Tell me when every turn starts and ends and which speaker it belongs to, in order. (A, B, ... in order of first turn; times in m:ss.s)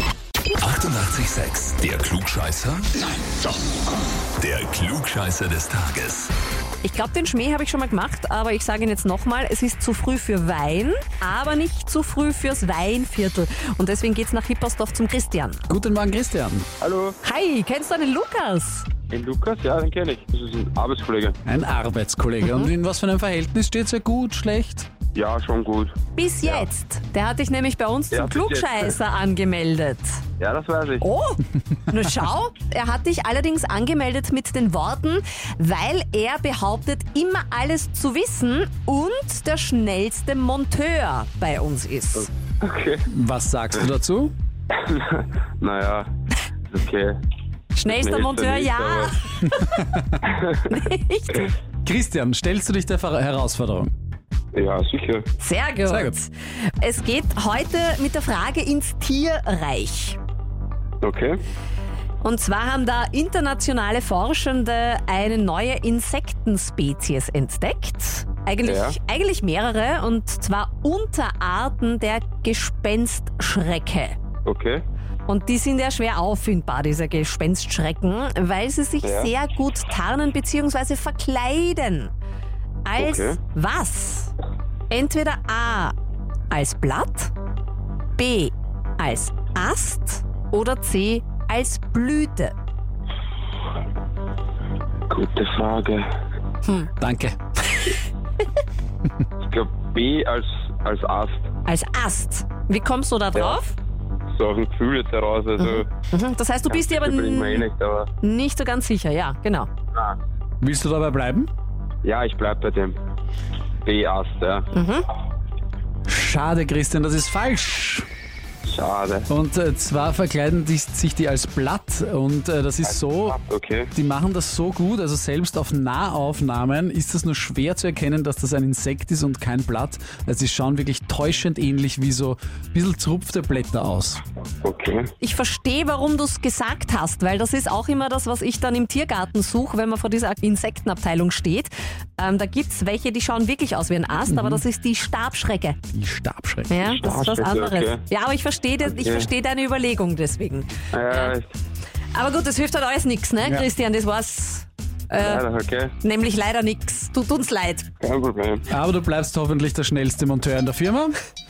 0:00.6-0:03.1 A
0:04.4-0:06.3 A
0:06.8-0:15.6 B
0:15.7-0:16.7 C
0:16.8-0:17.2 D
0:17.2-0:18.9 B
0:19.1-0:21.4 D
0:21.4-0:24.9 C
0:22.4-0:22.7 B
0:25.1-0:26.7 D
0:26.1-0:30.2 B
0:28.1-0:29.0 D
0:30.4-0:31.0 D
0:31.0-0:42.3 B
0:42.2-0:43.0 D
0:43.1-0:44.3 C
0:44.7-0:46.1 D
0:46.7-0:47.2 D
0:47.7-0:49.8 B
0:47.9-0:49.2 D
0:49.4-0:50.2 C
0:50.3-0:50.6 D
0:50.7-0:51.5 B
0:51.8-0:53.9 C
0:54.5-0:55.2 D
0:55.4-1:00.2 B
0:55.9-0:56.1 C
1:01.0-1:01.4 D
1:02.2-1:14.2 B
1:08.6-1:09.0 D
1:14.4-1:14.8 D
1:15.3-1:22.1 B
1:19.0-1:19.3 D
1:22.9-1:24.3 B
1:23.0-1:23.4 D
1:24.9-1:25.9 B
1:26.5-1:27.3 B
1:28.2-1:32.5 B
1:35.1-1:36.1 D
1:36.6-1:36.9 B
1:37.0-1:37.4 C
1:39.4-1:41.5 D
1:41.7-1:43.8 B
1:43.3-1:43.6 D
1:44.3-1:45.9 D
1:45.6-1:47.7 B
1:46.7-1:48.1 D
1:48.2-1:49.7 B
1:50.6-1:51.5 C
1:52.0-1:53.0 D
1:53.8-1:54.7 D
1:54.7-1:55.1 B
1:56.1-1:58.0 C
1:58.7-1:59.3 D
1:59.3-2:03.4 C
2:02.9-2:03.9 D
2:03.9-2:14.2 C
2:14.6-2:15.1 D
2:15.2-2:25.8 B
2:24.2-2:24.6 C
2:25.9-2:26.8 C
2:26.7-2:31.4 B
2:26.8-2:28.0 D
2:28.8-2:29.3 D
2:30.9-2:31.5 D
2:32.1-2:35.4 B
2:35.2-2:35.9 D
2:36.0-2:37.9 B
2:38.0-2:38.7 D
2:38.7-2:41.2 C